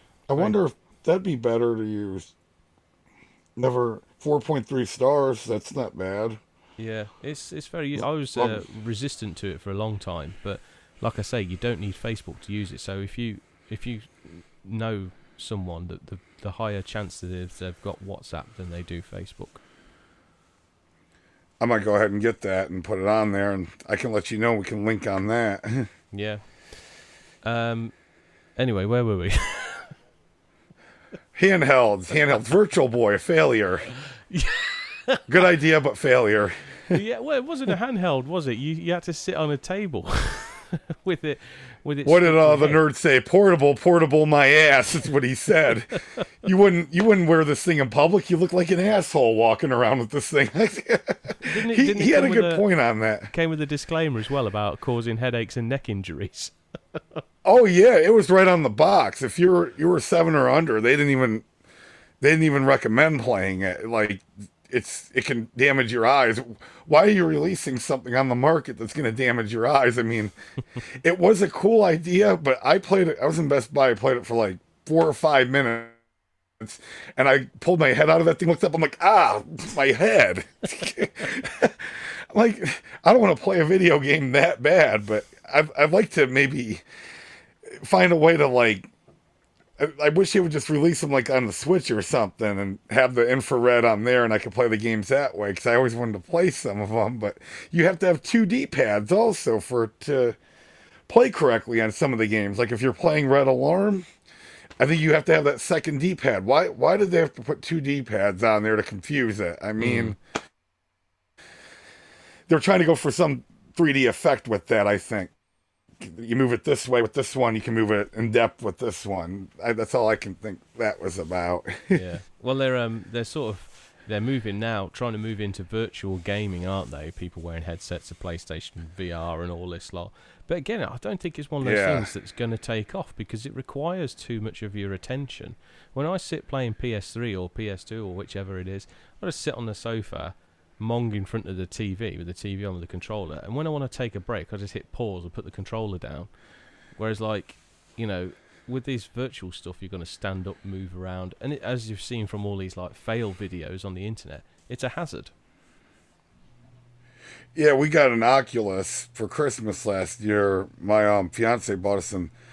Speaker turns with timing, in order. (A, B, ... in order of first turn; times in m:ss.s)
0:00.3-0:02.3 A
0:03.6-0:06.4 A
0:06.8-0:19.6 B
0:08.3-0:08.6 A
0:21.6-0:25.9 A
0:26.1-0:26.4 B
0:27.4-0:28.0 B
0:28.6-0:30.0 B
0:31.3-0:33.9 A
0:34.2-0:35.2 B
0:35.3-0:37.0 A
0:36.9-0:42.8 B
0:42.0-0:53.3 A
0:51.4-0:52.6 B
0:53.3-0:57.2 B
0:57.4-1:01.4 A
1:02.2-1:10.3 A
1:10.9-1:16.0 A
1:16.6-1:26.8 A
1:27.6-1:28.9 A
1:29.8-1:40.4 A
1:41.1-1:44.0 A
1:44.8-1:50.2 A
1:49.8-1:50.1 B
1:52.5-1:55.3 A
1:56.0-2:02.0 A
2:01.9-2:26.3 B
2:11.6-2:12.1 A
2:26.9-2:35.3 B
2:37.5-2:42.3 A